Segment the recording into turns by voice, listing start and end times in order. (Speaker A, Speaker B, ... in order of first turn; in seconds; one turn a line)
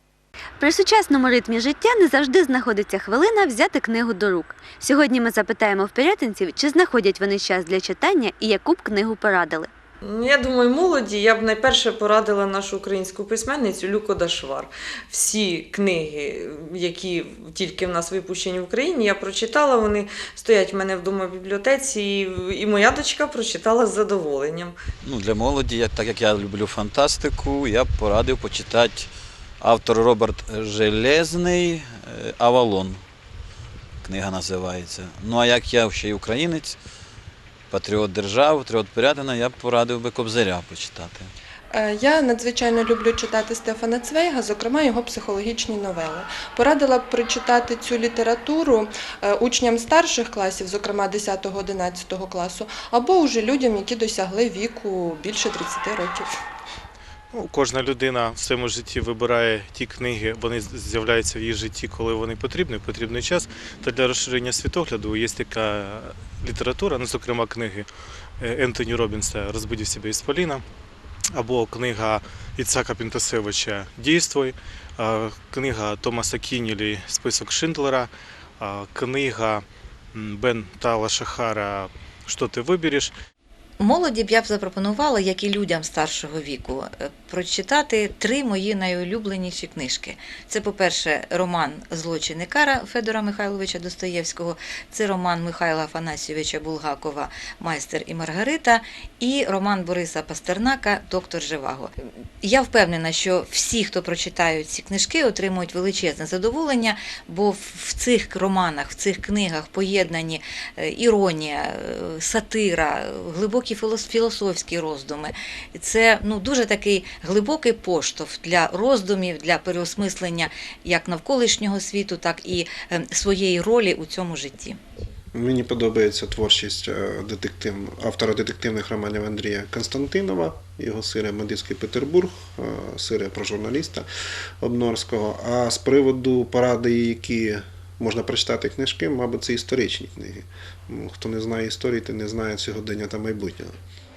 Speaker A: 0.6-9.7
Speaker B: 10.0-24.8
Speaker C: 25.0-29.1
Speaker C: 29.6-33.0
Speaker C: 34.0-36.8
Speaker C: 37.7-41.3
Speaker D: 41.7-56.3
Speaker E: 57.3-67.9
Speaker E: 68.4-70.6
Speaker E: 71.4-79.6
Speaker E: 80.1-83.1
Speaker F: 83.8-101.9
Speaker F: 102.4-124.8
Speaker G: 125.3-134.1
Speaker G: 134.6-143.8